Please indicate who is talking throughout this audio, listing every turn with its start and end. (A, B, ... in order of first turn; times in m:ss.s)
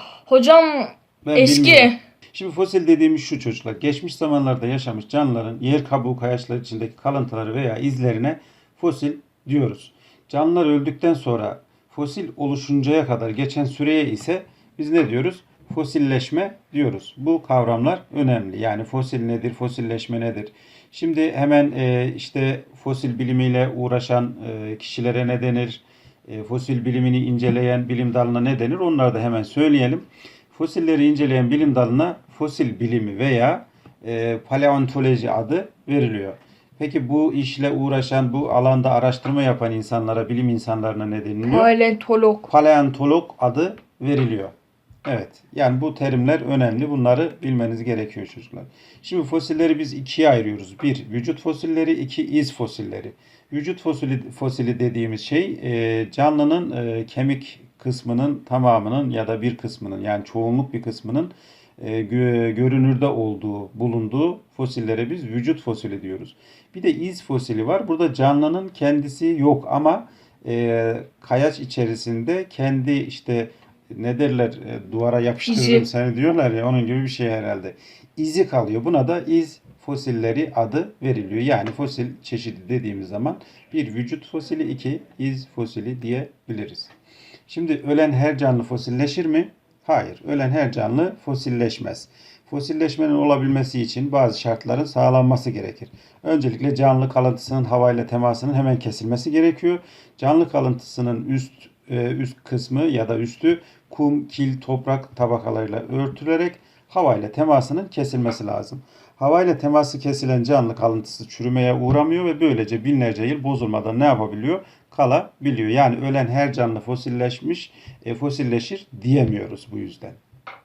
0:00.3-0:02.0 A
0:01.2-0:41.7 B
0:41.5-0:42.5 A
0:42.5-0:44.5 B
0:45.0-1:26.9 B
1:15.5-1:15.9 A
1:27.5-2:00.2 B